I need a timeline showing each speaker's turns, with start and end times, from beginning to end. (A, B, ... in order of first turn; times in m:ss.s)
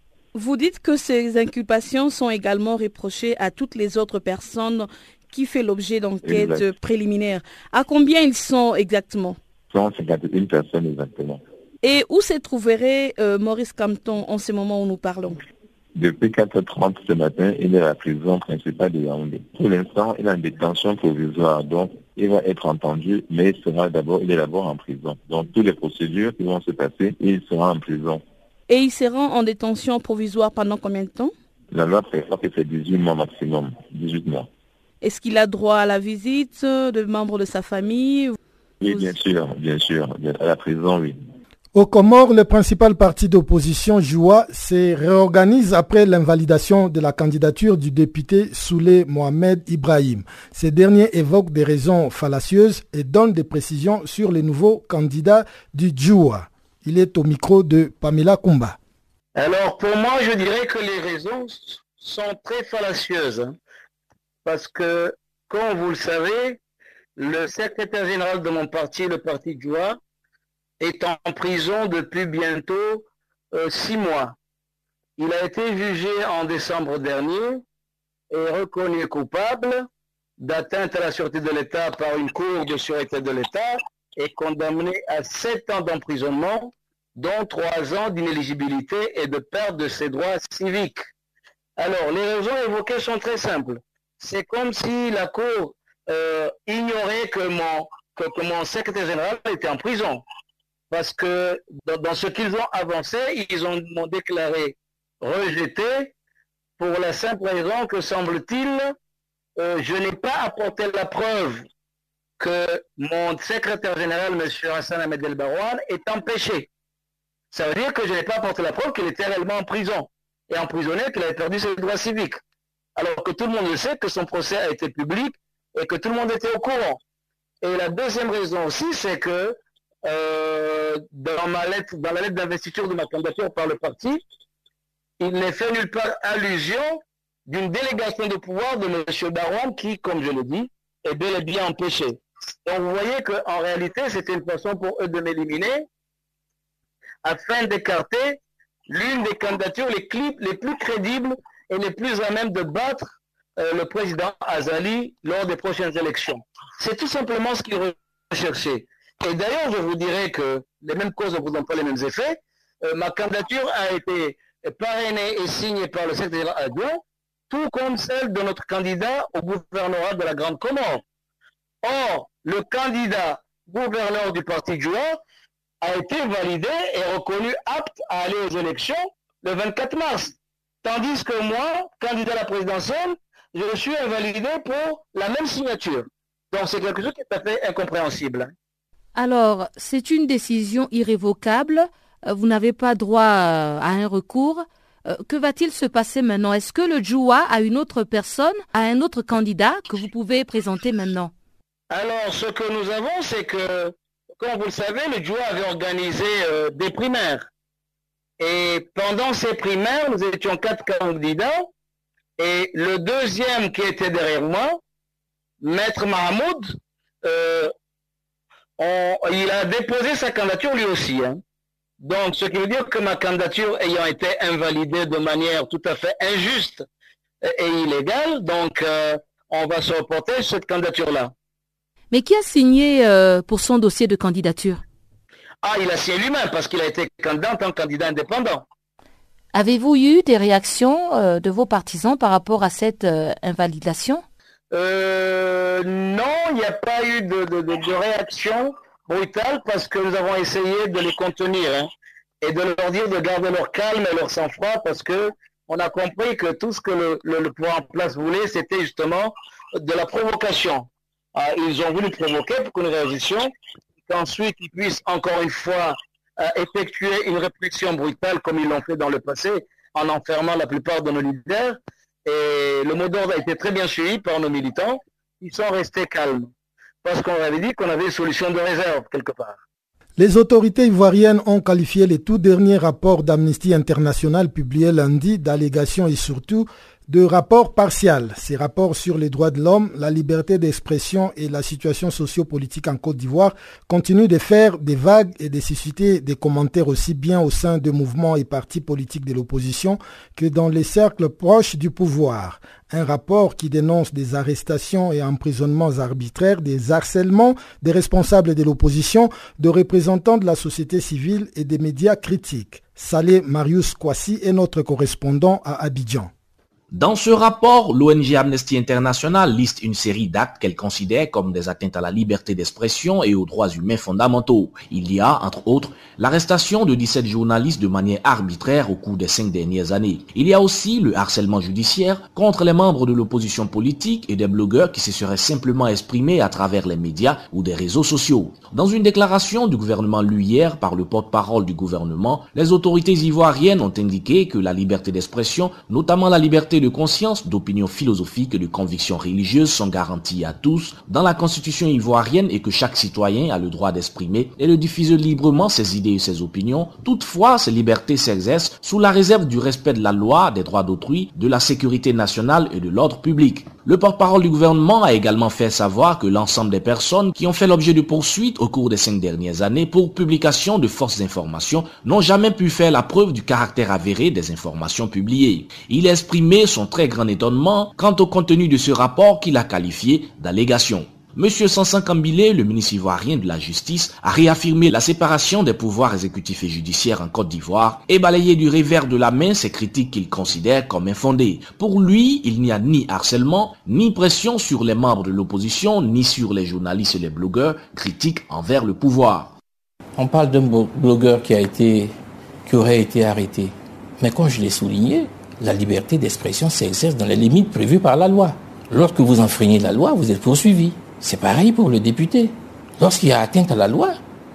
0:00.3-0:09.4 A
0:06.2-0:06.7 B
0:09.7-0:11.4 B
0:11.8-0:15.4 A
0:15.9-0:28.2 B
0:28.7-0:31.3 A
0:31.7-0:34.5 B
0:35.0-0:38.3 A
0:38.8-0:41.2 B
0:38.9-0:39.1 A
0:41.7-0:58.8 C
0:59.3-1:03.6 D
1:04.4-1:06.6 D
1:07.2-1:10.0 D
1:10.8-1:14.4 D
1:15.2-1:17.6 D
1:18.3-1:19.9 D
1:20.4-1:31.0 D
1:31.8-1:40.2 D
1:40.9-1:46.1 D
1:46.8-1:48.9 D
1:49.6-1:51.6 D
1:52.4-1:56.7 D
1:57.5-2:02.4 D
2:03.0-2:07.0 D
2:07.6-2:14.2 D
2:15.2-2:25.9 D
2:27.2-2:51.0 D
2:51.8-2:55.2 D
2:55.8-3:08.5 D
3:09.1-3:21.3 E
3:21.9-3:27.5 D
3:28.4-3:31.7 D
3:32.4-3:34.8 D
3:35.6-3:37.7 D
3:38.8-3:41.4 D
3:42.0-3:46.8 D
3:47.4-3:51.3 D
3:52.1-3:54.8 E
3:55.6-3:58.6 D
3:59.5-4:04.2 E
4:04.7-4:11.9 D
4:12.4-4:23.5 D
4:24.1-4:36.5 D
4:37.0-4:39.6 D
4:40.2-5:16.3 C
5:16.9-6:39.5 F
6:40.2-6:42.1 G
6:42.6-6:54.2 G